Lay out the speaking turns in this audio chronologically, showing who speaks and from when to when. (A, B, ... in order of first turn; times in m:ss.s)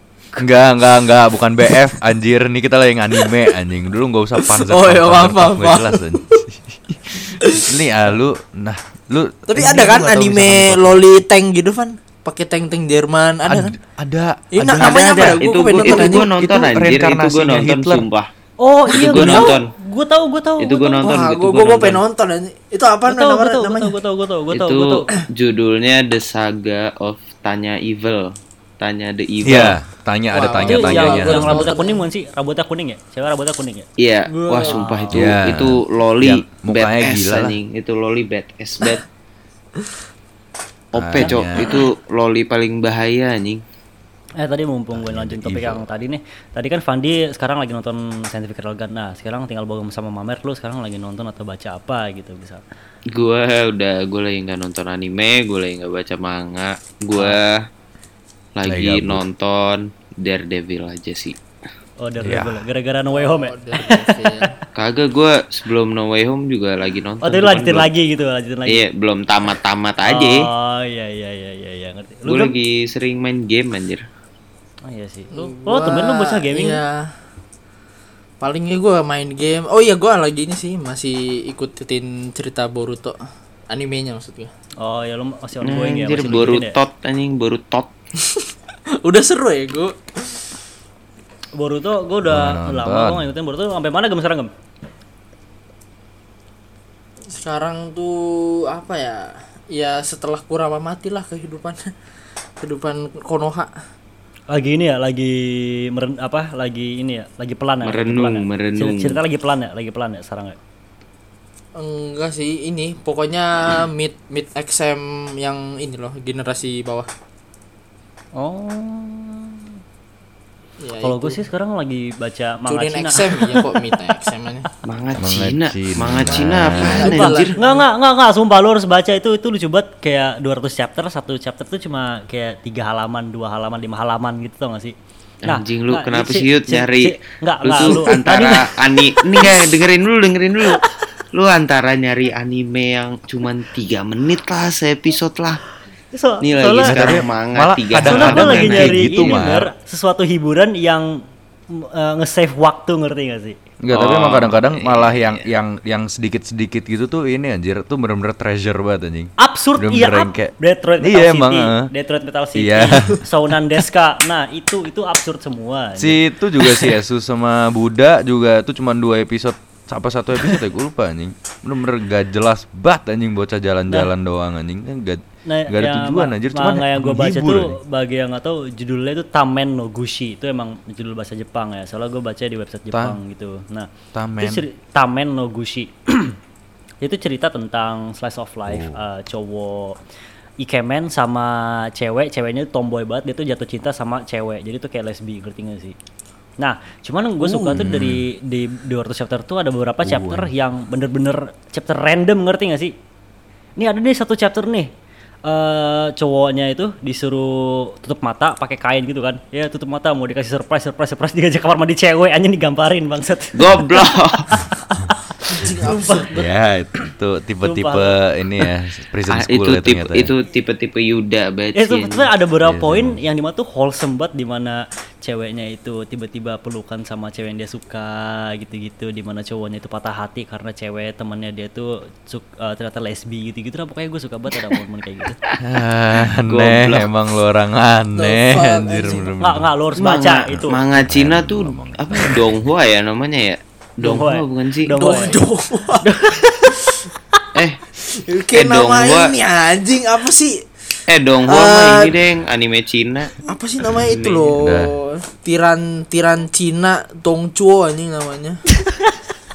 0:00.4-0:11.0 A
0:04.4-0:06.3 B
0:09.5-0:13.7 B
0:13.5-0:18.0 A
0:14.5-0:16.3 B
0:14.8-0:18.3 C
0:18.6-0:21.1 D
0:18.9-0:19.7 C
0:19.1-0:19.4 B
0:20.6-0:22.0 C
0:21.0-0:24.0 B
0:23.1-0:25.1 D
0:24.5-0:29.8 C
0:29.4-0:31.7 A
0:30.3-0:32.0 B
0:30.6-0:33.9 D
0:34.0-0:39.0 C
0:34.3-0:34.8 B
0:34.6-0:35.3 D
0:35.1-0:37.6 A
0:40.9-0:43.6 C
0:40.9-0:41.8 A
0:41.2-0:41.4 D
0:44.4-0:52.6 D
0:44.9-0:45.8 A
0:53.1-0:57.6 C
0:58.6-1:01.4 C
0:58.6-0:59.2 A
1:02.0-1:04.5 D
1:02.2-1:02.6 A
1:03.1-1:04.6 B
1:04.7-1:07.9 C
1:07.2-1:08.8 D
1:08.7-1:10.5 C
1:10.0-1:12.5 D
1:12.2-1:14.0 C
1:14.8-1:16.8 D
1:15.3-1:17.0 B
1:18.4-1:23.2 B
1:23.7-1:24.5 B
1:24.8-1:26.8 D
1:25.6-1:27.9 C
1:28.2-1:28.5 B
1:29.0-1:30.4 B
1:31.6-1:34.5 D
1:32.3-1:33.3 A
1:37.3-1:41.9 B
1:42.6-1:43.7 B
1:44.5-1:50.6 D
1:47.8-1:49.2 C
1:51.7-1:57.1 B
1:58.3-1:59.7 D
2:00.8-2:01.4 B
2:01.0-2:04.0 D
2:02.7-2:04.7 B
2:04.8-2:07.6 C
2:05.2-2:07.1 A
2:06.3-2:07.8 B
2:07.0-2:14.9 D
2:15.4-2:20.8 C
2:15.4-2:19.5 D
2:21.3-2:25.6 C
2:26.1-2:27.2 D
2:26.4-2:29.5 C
2:26.8-2:29.7 A
2:28.0-2:33.6 D
2:33.8-2:41.9 A
2:33.9-2:35.4 C
2:39.4-2:47.0 D
2:42.5-2:43.2 A
2:46.0-2:57.8 A
2:55.4-3:06.4 D
3:02.9-3:03.2 A
3:04.1-3:04.6 A
3:07.0-3:10.0 D
3:08.7-3:09.0 A
3:10.6-3:16.0 D
3:16.6-3:22.9 D
3:17.4-3:18.2 A
3:20.0-3:20.5 A
3:23.8-3:24.9 D
3:25.4-3:36.4 D
3:33.5-3:34.5 C
3:35.5-3:36.4 B
3:36.3-3:40.3 A
3:37.6-3:38.2 D
3:39.3-3:42.3 C
3:41.7-3:55.4 D
3:42.6-3:43.2 A
3:55.6-3:59.7 A
3:56.2-3:57.1 C
3:58.2-3:59.3 B
3:59.4-4:00.8 D
4:00.0-4:04.9 C
4:00.5-4:02.6 A
4:04.0-4:05.4 D
4:04.9-4:06.1 B
4:06.0-4:06.9 D
4:07.5-4:07.8 C
4:08.1-4:10.6 B
4:08.5-4:09.3 C
4:11.1-4:13.4 C
4:11.4-4:12.2 B
4:13.4-4:18.6 B
4:14.0-4:14.5 C
4:14.6-4:14.9 A
4:18.8-4:19.1 D